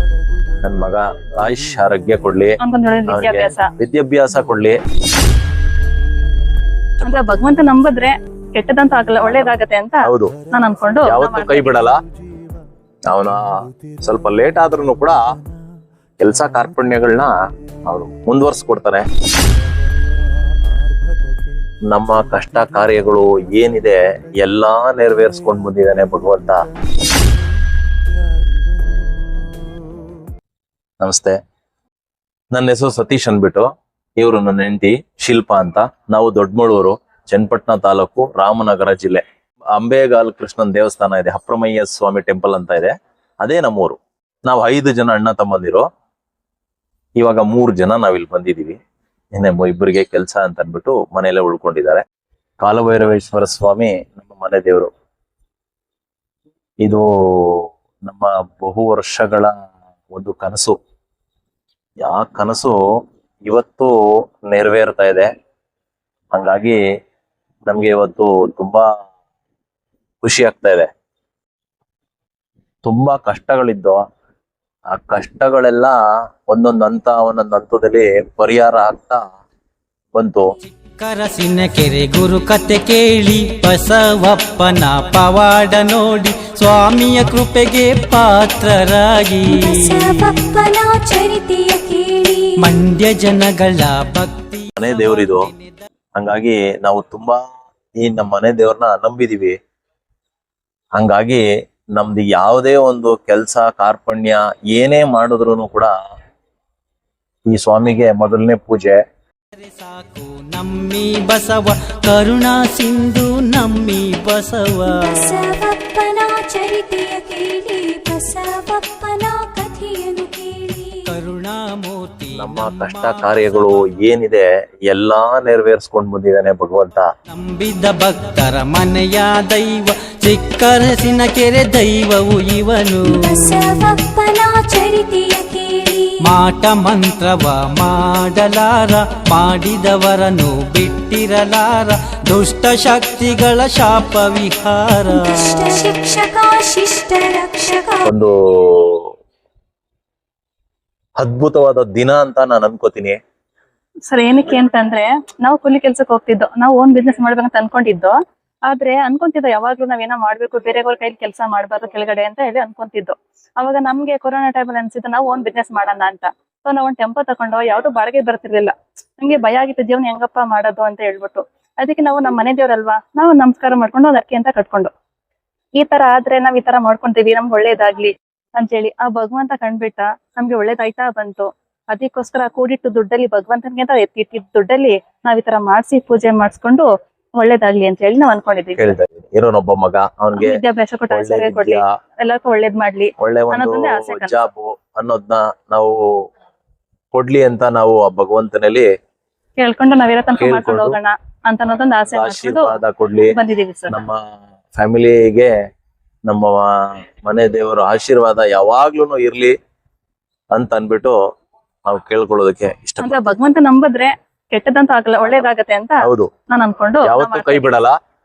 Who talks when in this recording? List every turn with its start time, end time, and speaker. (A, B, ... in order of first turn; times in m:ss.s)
0:00.6-0:02.6 A
0:02.6-0:03.7 B
0:03.1-0:04.8 A
0:07.0-0:11.8 B
0:10.1-0:10.3 A
0:11.1-0:11.9 A
0:13.1-0:13.4 A
0:14.0-0:15.2 A
0:16.2-0:17.3 A
0:17.9-0:19.0 A
0:21.9-0:26.6 A
0:31.0-0:31.4 A
0:32.5-0:33.7 A
0:34.2-0:39.2 A
0:39.8-0:44.0 A
0:44.5-0:45.8 A
0:47.2-0:48.8 A
0:49.4-0:52.0 A
0:52.6-0:54.9 A
0:56.8-0:59.5 A
1:00.1-1:00.8 A
1:02.0-1:02.8 A
1:03.5-1:03.9 A
1:04.5-1:05.3 A
1:06.3-1:06.8 A
1:07.7-1:08.8 A
1:10.2-1:10.9 A
1:12.8-1:14.0 A
1:14.9-1:16.0 A
1:16.5-1:19.2 A
1:20.1-1:20.5 A
1:20.8-1:30.3 C
1:29.5-1:32.6 D
1:32.6-1:35.9 C
1:34.8-1:35.5 A
1:36.2-1:37.4 A
1:38.0-1:39.6 A
1:41.0-1:41.4 A
1:42.0-1:45.9 A
1:47.5-1:49.0 A
1:49.6-1:55.4 C
1:54.9-2:01.1 D
2:01.1-2:03.7 C
2:02.4-2:07.1 A
2:07.3-2:13.6 C
2:13.0-2:16.2 D
2:16.2-2:25.8 C
2:25.1-2:28.1 D
2:28.1-2:29.1 A
2:31.2-2:33.2 A
2:34.1-2:38.1 B
2:38.7-2:54.9 B
2:55.8-3:06.9 B
3:07.4-3:08.8 B
3:08.8-3:10.6 A
3:10.4-3:14.4 B
3:11.1-3:11.8 A
3:13.2-3:16.0 A
3:17.1-3:18.9 A
3:19.6-3:22.7 B
3:20.4-3:21.0 A
3:22.1-3:23.3 A
3:23.3-3:24.0 B
3:23.9-3:24.2 A
3:24.7-3:25.5 A
3:26.3-3:26.7 A
3:27.2-3:29.5 A
3:30.5-3:31.2 A
3:31.9-3:33.4 A
3:33.0-3:37.7 B
3:36.0-3:36.3 A
3:37.1-3:37.9 A